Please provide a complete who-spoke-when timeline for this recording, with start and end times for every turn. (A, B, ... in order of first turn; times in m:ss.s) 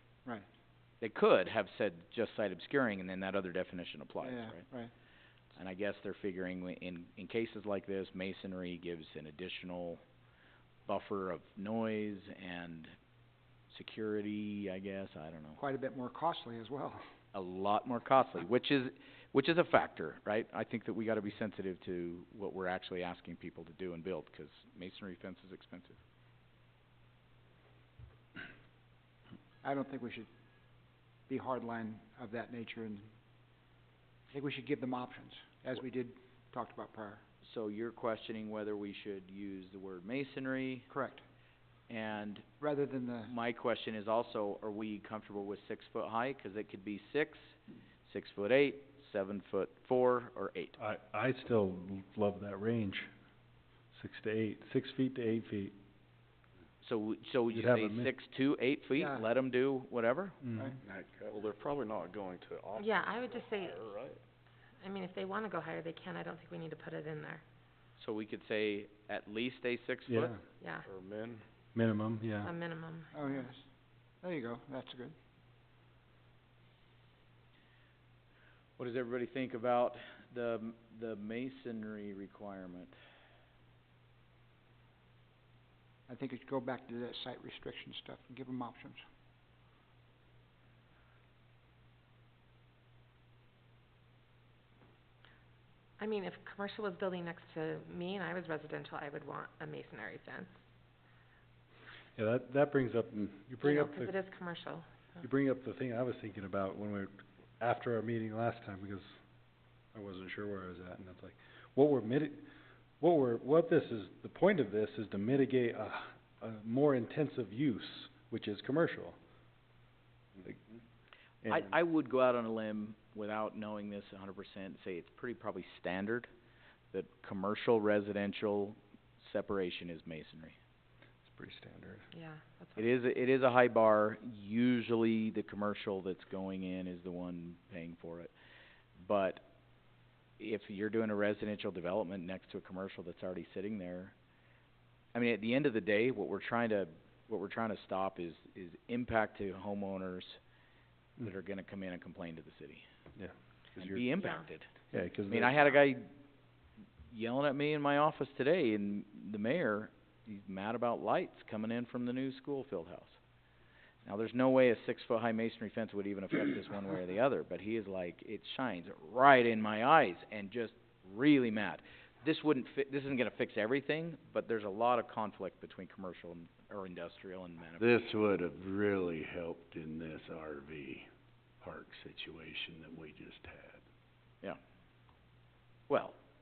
0:01.0-0:04.6 A
0:04.2-0:04.9 B
0:05.6-0:10.0 A
0:10.9-0:12.9 A
0:13.7-0:15.6 A
0:15.6-0:17.0 B
0:17.3-0:26.0 A
0:29.6-0:30.3 B
0:31.3-0:33.1 B
0:34.3-0:37.2 B
0:37.4-0:40.9 A
0:40.9-0:41.2 B
0:41.9-0:42.4 A
0:42.6-0:43.3 B
0:43.2-0:50.8 A
0:50.8-0:53.1 C
0:53.9-0:55.7 C
0:56.8-1:00.4 A
0:57.5-0:58.1 C
0:59.0-0:59.3 B
1:00.4-1:00.8 C
1:00.8-1:01.5 D
1:01.3-1:04.2 E
1:02.8-1:03.8 F
1:04.8-1:07.4 F
1:08.0-1:10.3 A
1:10.1-1:10.4 C
1:10.6-1:10.9 F
1:10.8-1:11.4 E
1:11.7-1:12.5 C
1:12.4-1:13.4 F
1:13.1-1:13.6 B
1:14.2-1:15.1 B
1:18.8-1:22.9 A
1:26.1-1:29.0 B
1:36.0-1:40.5 F
1:42.2-1:44.2 C
1:43.6-1:44.9 F
1:45.2-1:49.2 C
1:49.9-1:52.4 C
1:53.0-1:59.2 C
2:01.4-2:06.3 A
2:06.9-2:10.6 A
2:11.3-2:12.0 C
2:12.1-2:12.9 F
2:12.8-2:18.3 A
2:19.0-2:19.4 A
2:20.4-2:24.1 A
2:25.1-2:30.4 A
2:31.2-2:32.8 A
2:33.2-2:34.1 C
2:33.7-2:36.0 A
2:34.2-2:34.5 F
2:34.9-2:35.6 C
2:37.1-2:43.2 A
2:44.0-2:57.9 A
2:57.8-3:01.1 D
3:01.6-3:03.8 D
3:05.9-3:06.2 A